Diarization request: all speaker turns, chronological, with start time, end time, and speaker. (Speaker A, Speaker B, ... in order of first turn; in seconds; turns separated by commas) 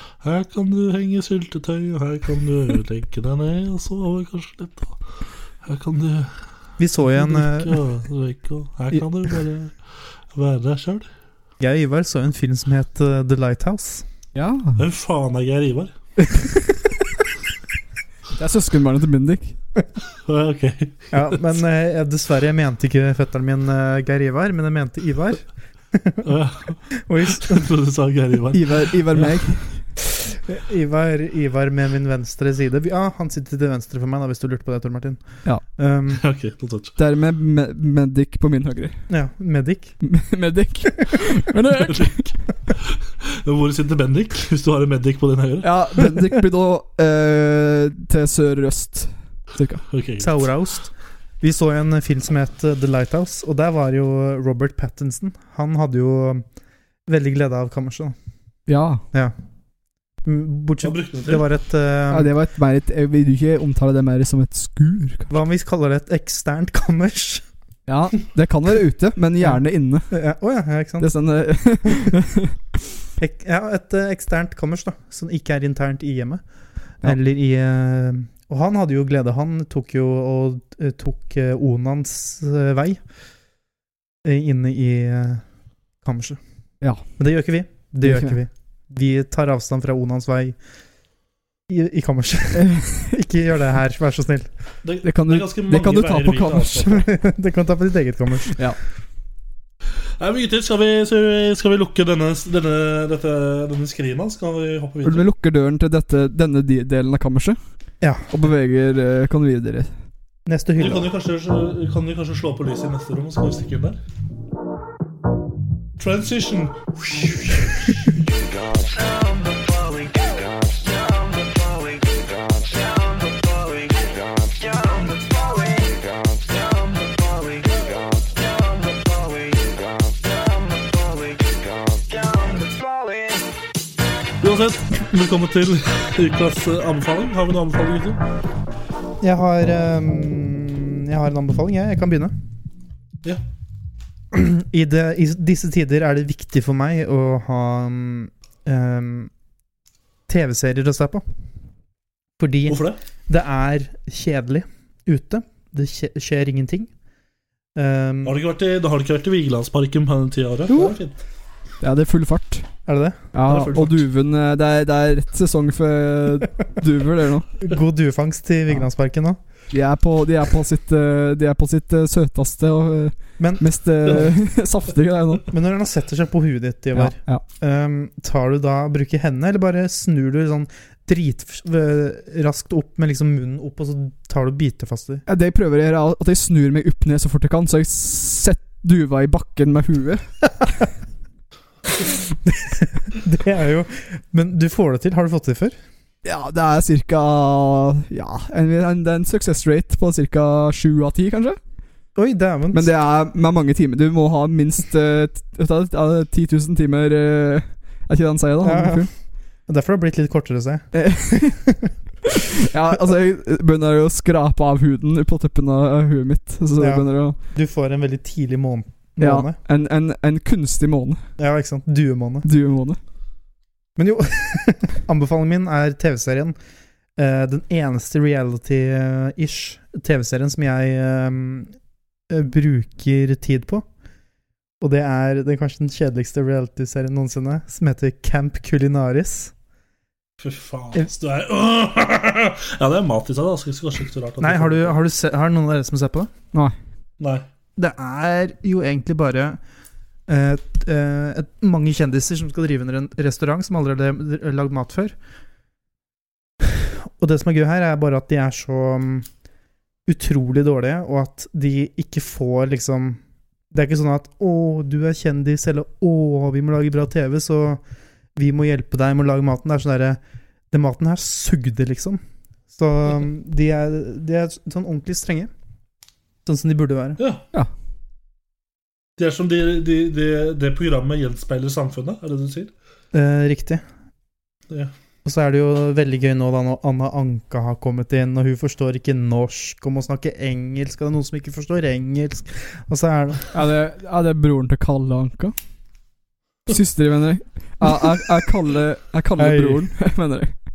Speaker A: 0.2-5.0, Speaker A: 5.6-6.3, Speaker B: 6.8-7.8, Speaker A: 7.1-11.1, Speaker B: 11.6-14.0, Speaker C: 14.3-14.8, Speaker A: 14.8-15.9, Speaker C: 18.3-19.6, Speaker A: 20.2-21.4, Speaker B: 21.1-26.2, Speaker A: 26.2-28.9, Speaker B: 27.0-27.7, Speaker C: 28.5-29.8, Speaker B: 30.2-36.2, Speaker A: 36.1-36.9, Speaker C: 37.0-39.0, Speaker B: 39.1-40.0, Speaker C: 40.0-42.3, Speaker A: 41.9-42.2, Speaker A: 43.2-46.3, Speaker C: 45.6-49.8, Speaker A: 49.9-50.4, Speaker B: 50.2-56.4, Speaker B: 57.1-58.1, Speaker C: 58.7-59.0, Speaker B: 60.2-62.3, Speaker A: 60.8-61.5, Speaker C: 62.1-65.3, Speaker B: 65.3-67.4, Speaker C: 67.9-70.1, Speaker B: 70.1-71.1, Speaker C: 71.0-72.5, Speaker B: 73.2-76.4, Speaker B: 77.0-83.0, Speaker B: 84.2-85.4, Speaker B: 86.0-86.4, Speaker B: 87.2-90.6, Speaker C: 88.0-88.4, Speaker B: 91.7-94.5, Speaker C: 92.5-93.0, Speaker A: 94.8-97.0, Speaker C: 95.0-97.0, Speaker B: 96.9-98.6, Speaker C: 98.5-98.8, Speaker A: 100.2-105.3, Speaker C: 105.0-107.6, Speaker C: 108.3-109.9, Speaker B: 110.5-111.1, Speaker A: 110.8-114.0, Speaker A: 116.0-118.2, Speaker A: 134.4-138.2, Speaker B: 139.2-142.3, Speaker B: 144.3-149.3, Speaker B: 150.3-151.2, Speaker B: 152.4-156.9, Speaker A: 152.7-153.0, Speaker B: 157.7-158.4, Speaker A: 158.2-161.2, Speaker B: 160.7-160.9, Speaker C: 161.8-162.7, Speaker B: 162.9-163.2, Speaker C: 163.3-167.5, Speaker A: 163.5-164.0, Speaker B: 167.6-169.4, Speaker C: 169.7-175.5, Speaker B: 173.4-174.3, Speaker B: 175.5-185.2, Speaker C: 176.9-177.4, Speaker C: 185.3-190.2, Speaker B: 192.0-195.8, Speaker C: 196.2-201.6, Speaker B: 202.2-202.9, Speaker C: 202.7-209.1, Speaker B: 208.6-209.1, Speaker B: 209.7-210.9, Speaker C: 210.9-211.6, Speaker B: 211.4-211.9, Speaker C: 212.3-217.4, Speaker B: 216.8-219.6, Speaker C: 219.2-221.2, Speaker B: 221.4-222.4, Speaker C: 222.4-223.0, Speaker B: 224.0-226.5, Speaker B: 227.2-231.7, Speaker B: 232.3-233.8, Speaker B: 234.8-239.5, Speaker A: 240.4-244.9, Speaker B: 244.4-246.3, Speaker A: 247.2-247.4, Speaker B: 247.8-249.6, Speaker B: 250.3-255.1, Speaker B: 256.6-259.3, Speaker B: 260.1-263.2, Speaker B: 263.7-267.8, Speaker B: 268.3-270.2, Speaker B: 270.7-272.2, Speaker B: 272.7-275.5, Speaker B: 276.4-277.2, Speaker A: 279.2-282.7, Speaker B: 283.1-283.8, Speaker B: 285.2-293.5, Speaker C: 293.5-295.5, Speaker C: 296.7-300.5, Speaker B: 299.4-299.9